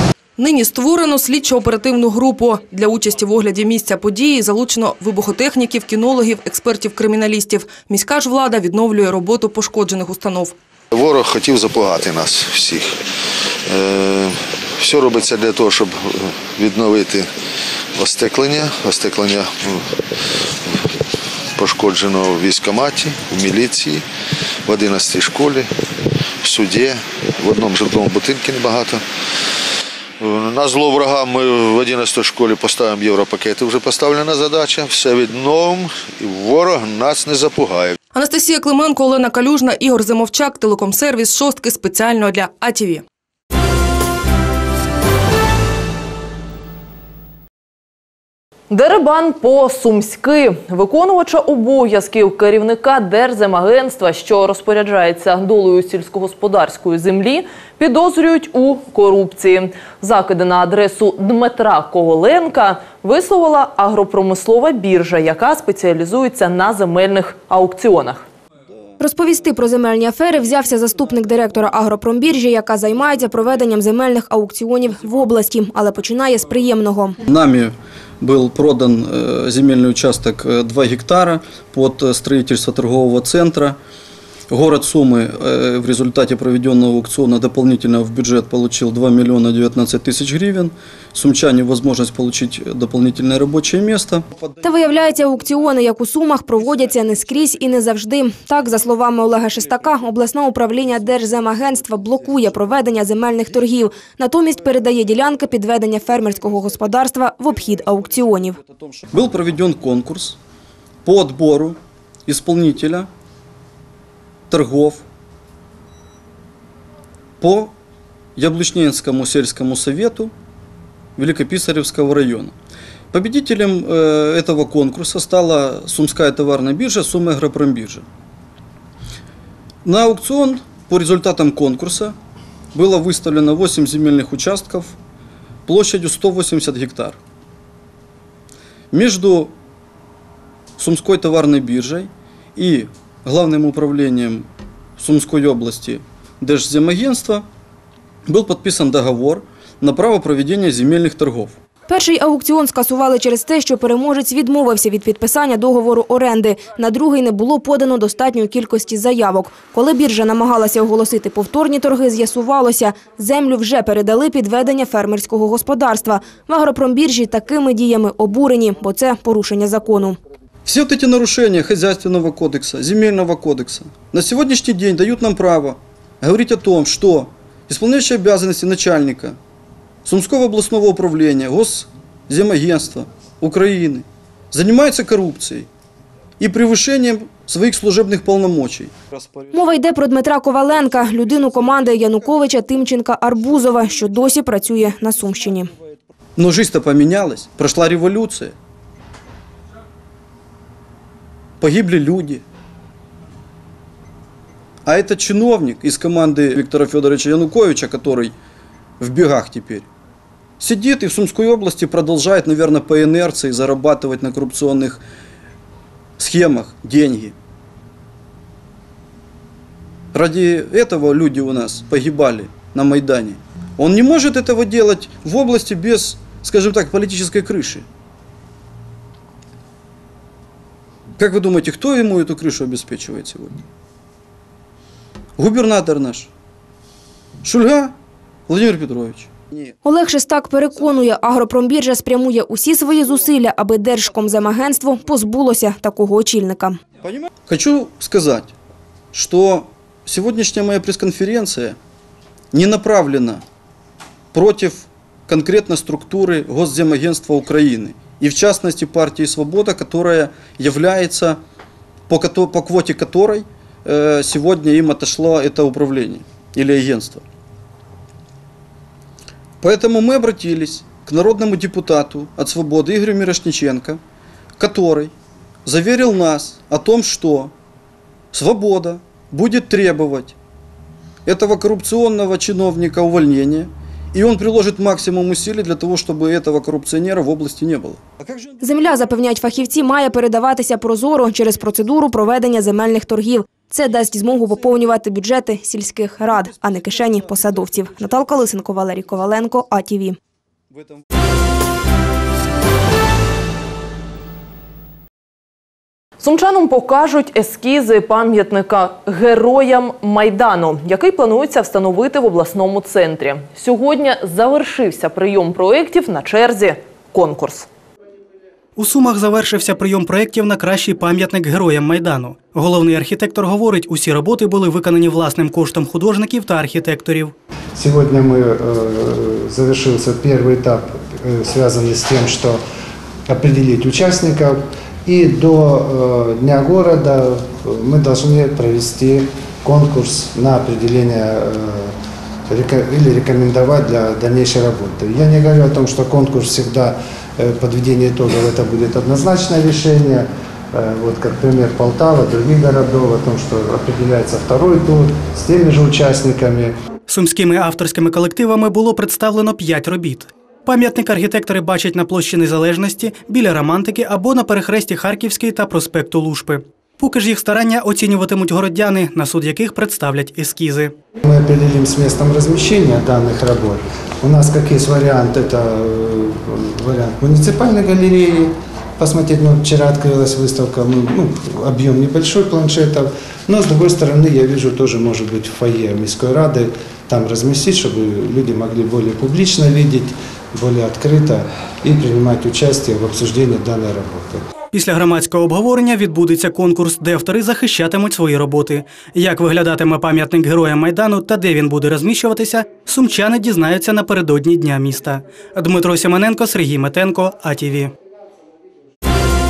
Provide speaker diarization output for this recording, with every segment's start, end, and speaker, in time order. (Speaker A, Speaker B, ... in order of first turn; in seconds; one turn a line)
Speaker A: 0.4-10.6
Speaker B: 10.9-13.0
Speaker B: 13.7-17.3
Speaker B: 18.0-20.0
Speaker B: 21.6-24.1
Speaker B: 24.7-25.7
Speaker B: 26.4-29.0
Speaker B: 30.2-38.0
Speaker A: 38.1-43.0
Speaker C: 48.7-68.3
Speaker D: 69.0-77.2
Speaker E: 77.3-83.8
Speaker E: 84.5-94.2
Speaker D: 94.6-108.6
Speaker E: 109.1-110.4
Speaker E: 111.0-113.1
Speaker E: 114.5-115.0
Speaker E: 117.4-117.7
Speaker E: 118.4-120.3
Speaker E: 121.2-122.5
Speaker E: 123.1-128.1
Speaker E: 129.8-132.2
Speaker E: 132.7-135.0
Speaker E: 135.7-137.2
Speaker E: 138.9-139.5
Speaker E: 140.8-147.5
Speaker E: 148.3-151.6
Speaker D: 151.9-170.2
Speaker E: 170.7-179.4
Speaker E: 180.1-185.7
Speaker E: 186.4-189.5
Speaker D: 189.5-195.7
Speaker E: 196.4-198.6
Speaker E: 201.6-202.4
Speaker E: 204.9-208.4
Speaker E: 209.0-209.9
Speaker E: 210.6-215.0
Speaker E: 216.2-217.3
Speaker E: 220.1-227.8
Speaker E: 231.2-233.6
Speaker E: 235.4-236.3
Speaker E: 237.4-237.9
Speaker E: 238.5-239.8
Speaker D: 239.8-246.8
Speaker E: 247.0-248.5
Speaker E: 249.1-251.8
Speaker E: 252.5-253.4
Speaker E: 254.3-261.4
Speaker E: 262.1-267.2
Speaker E: 269.6-274.0
Speaker E: 274.6-275.1
Speaker E: 275.6-277.5
Speaker E: 278.3-280.4
Speaker E: 281.3-288.0
Speaker D: 288.6-300.2
Speaker C: 306.2-317.7
Speaker F: 318.8-327.3
Speaker G: 327.8-332.6
Speaker G: 333.3-341.9
Speaker G: 342.5-356.7
Speaker F: 357.1-370.9
Speaker G: 371.2-394.4
Speaker F: 394.7-407.9